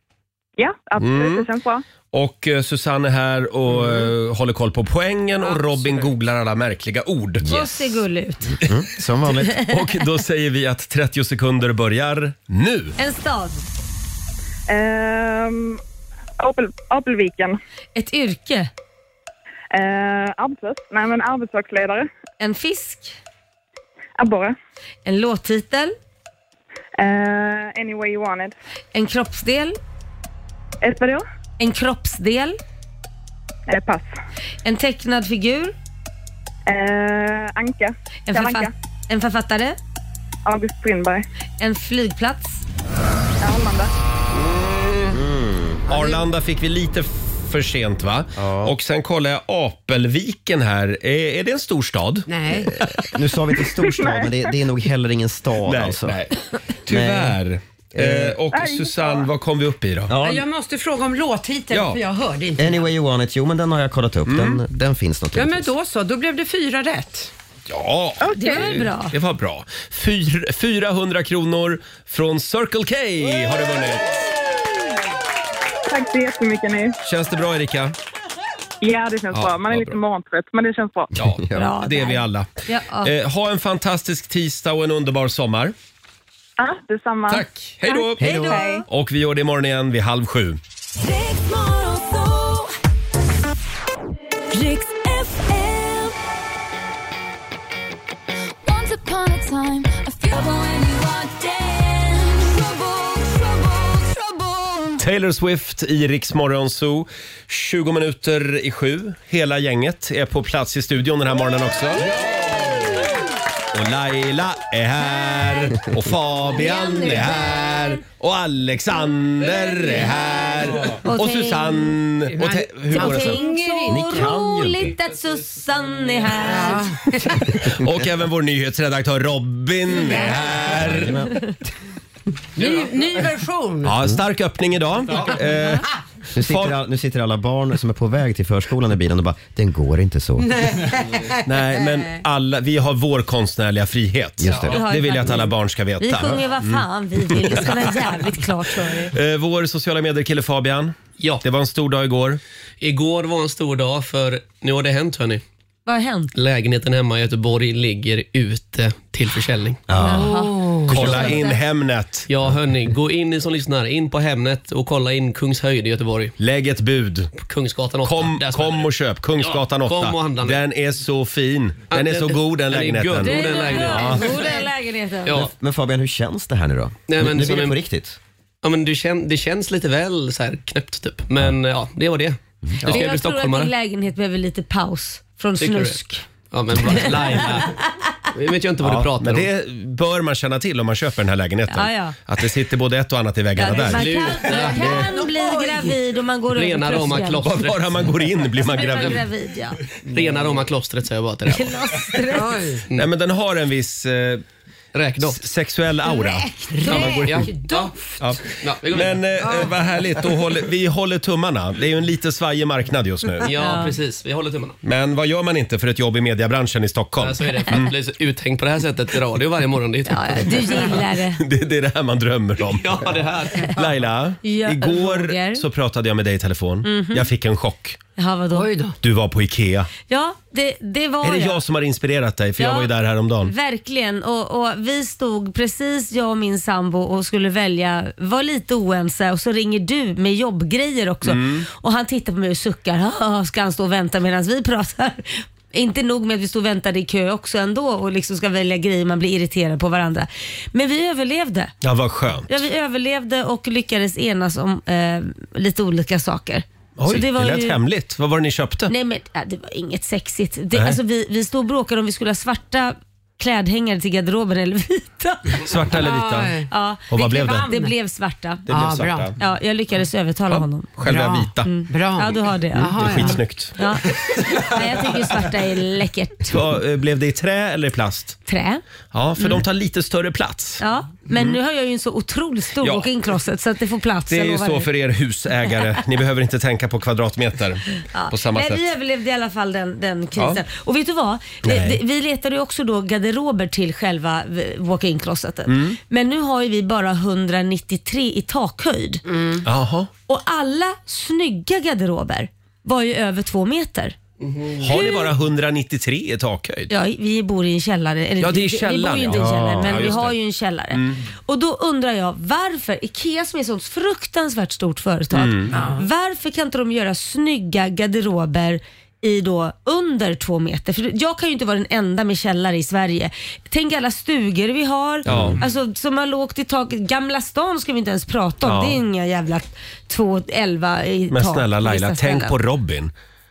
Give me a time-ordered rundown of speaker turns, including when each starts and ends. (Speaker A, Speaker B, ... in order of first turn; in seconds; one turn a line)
Speaker A: 0.6-1.8
Speaker B: 1.0-1.5
Speaker B: 2.1-7.5
Speaker C: 7.4-7.7
Speaker D: 7.4-8.6
Speaker C: 8.6-9.6
Speaker B: 9.6-12.9
Speaker D: 13.0-13.6
Speaker A: 14.7-15.8
Speaker A: 16.4-17.6
Speaker D: 17.9-18.7
Speaker A: 19.7-22.1
Speaker D: 22.4-23.1
Speaker A: 24.2-24.5
Speaker D: 25.0-25.9
Speaker A: 27.0-28.5
Speaker D: 28.9-29.8
Speaker A: 30.8-31.2
Speaker D: 31.6-32.6
Speaker A: 33.7-34.1
Speaker D: 34.6-35.7
Speaker A: 36.7-38.7
Speaker D: 38.3-39.8
Speaker A: 40.5-41.2
Speaker D: 41.6-42.6
Speaker A: 43.4-43.9
Speaker B: 44.4-45.2
Speaker C: 45.1-45.8
Speaker B: 45.9-52.3
Speaker E: 45.9-46.2
Speaker C: 48.4-48.7
Speaker E: 52.3-52.8
Speaker C: 52.9-56.2
Speaker A: 53.8-54.4
Speaker B: 55.6-60.2
Speaker C: 56.9-57.4
Speaker C: 57.9-58.4
Speaker A: 58.5-59.3
Speaker C: 60.1-60.4
Speaker E: 60.2-62.8
Speaker B: 61.7-62.0
Speaker C: 62.6-65.7
Speaker B: 64.3-64.6
Speaker E: 65.3-67.3
Speaker B: 67.7-74.2
Speaker A: 68.2-68.6
Speaker D: 68.3-69.1
Speaker A: 75.9-76.9
Speaker B: 77.0-77.9
Speaker A: 78.8-81.1
Speaker B: 79.3-80.0
Speaker B: 81.2-82.5
Speaker C: 81.2-81.7
Speaker D: 81.5-83.1
Speaker B: 83.0-85.7
Speaker A: 86.6-88.8
Speaker B: 87.3-88.3
Speaker D: 88.2-88.7
Speaker C: 88.2-88.6
Speaker B: 88.9-90.6
Speaker F: 91.0-92.7
Speaker F: 94.5-96.1
Speaker F: 98.6-104.8
Speaker B: 105.0-112.1
Speaker B: 113.7-123.4
Speaker D: 116.5-117.9
Speaker D: 121.0-121.9
Speaker E: 122.3-124.3
Speaker D: 122.9-126.8
Speaker C: 123.9-124.9
Speaker E: 126.4-127.6
Speaker B: 127.5-131.3
Speaker C: 130.7-131.5
Speaker E: 132.6-134.0
Speaker B: 133.8-136.8
Speaker D: 135.5-135.8
Speaker C: 136.3-140.6
Speaker E: 140.4-142.0
Speaker B: 141.4-147.9
Speaker C: 144.4-144.8
Speaker D: 144.6-149.1
Speaker B: 149.1-152.4
Speaker G: 152.8-155.4
Speaker D: 155.8-156.3
Speaker G: 156.3-159.8
Speaker C: 159.9-160.4
Speaker E: 160.0-161.3
Speaker D: 160.0-161.6
Speaker B: 160.9-162.3
Speaker G: 161.0-161.3
Speaker G: 162.3-166.3
Speaker B: 166.4-167.3
Speaker G: 167.4-170.6
Speaker B: 168.0-174.2
Speaker G: 171.9-174.5
Speaker D: 173.2-175.4
Speaker G: 175.2-175.5
Speaker C: 175.3-178.2
Speaker G: 177.1-177.8
Speaker G: 178.6-183.7
Speaker D: 182.8-186.2
Speaker G: 185.6-187.8
Speaker D: 186.9-187.6
Speaker G: 188.3-189.5
Speaker B: 188.8-195.0
Speaker D: 191.7-192.2
Speaker D: 193.6-197.4
Speaker G: 193.7-194.9
Speaker E: 194.5-196.0
Speaker G: 196.5-198.0
Speaker B: 197.4-199.2
Speaker D: 198.6-199.8
Speaker G: 200.1-201.8
Speaker D: 201.5-202.5
Speaker E: 202.2-202.8
Speaker B: 202.9-204.4
Speaker G: 204.9-205.4
Speaker B: 205.2-207.5
Speaker E: 206.1-208.3
Speaker D: 206.8-207.2
Speaker G: 206.9-207.9
Speaker B: 208.2-213.5
Speaker G: 208.6-209.3
Speaker E: 209.4-209.7
Speaker G: 213.4-214.8
Speaker D: 213.6-213.9
Speaker B: 214.8-217.9
Speaker G: 217.2-221.0
Speaker D: 220.1-221.4
Speaker B: 221.3-228.0
Speaker G: 222.6-223.8
Speaker D: 224.4-225.6
Speaker D: 226.8-227.3
Speaker D: 228.2-228.7
Speaker E: 228.5-228.9
Speaker B: 229.0-229.9
Speaker D: 230.1-231.6
Speaker B: 231.2-233.5
Speaker D: 232.6-232.9
Speaker D: 233.4-251.7
Speaker B: 241.2-241.7
Speaker B: 251.8-252.5
Speaker D: 252.5-257.8
Speaker B: 257.0-258.9
Speaker D: 258.9-265.6
Speaker B: 260.7-261.0
Speaker B: 265.6-266.5
Speaker E: 265.9-267.9
Speaker D: 266.7-268.6
Speaker B: 267.1-267.7
Speaker B: 268.7-269.3
Speaker E: 268.7-269.3
Speaker D: 269.4-270.9
Speaker B: 270.5-271.7
Speaker E: 271.1-273.4
Speaker D: 271.6-276.6
Speaker B: 272.8-273.7
Speaker E: 274.1-274.4
Speaker B: 276.5-278.4
Speaker D: 278.5-278.8
Speaker B: 279.1-281.6
Speaker D: 279.4-279.6
Speaker D: 280.8-284.9
Speaker B: 282.8-283.1
Speaker B: 284.3-288.8
Speaker D: 288.1-299.2
Speaker B: 290.4-290.6
Speaker B: 291.6-292.0
Speaker B: 295.7-296.0
Speaker E: 299.3-299.6
Speaker B: 299.6-300.1
Speaker D: 300.3-304.2
Speaker G: 304.4-304.8
Speaker B: 304.8-306.9
Speaker D: 304.9-305.3
Speaker D: 306.9-332.5
Speaker B: 308.4-310.4
Speaker C: 309.3-309.9
Speaker B: 310.9-311.2
Speaker B: 315.3-315.7
Speaker E: 315.7-316.0
Speaker B: 325.2-325.6
Speaker B: 328.6-329.0
Speaker B: 331.3-333.1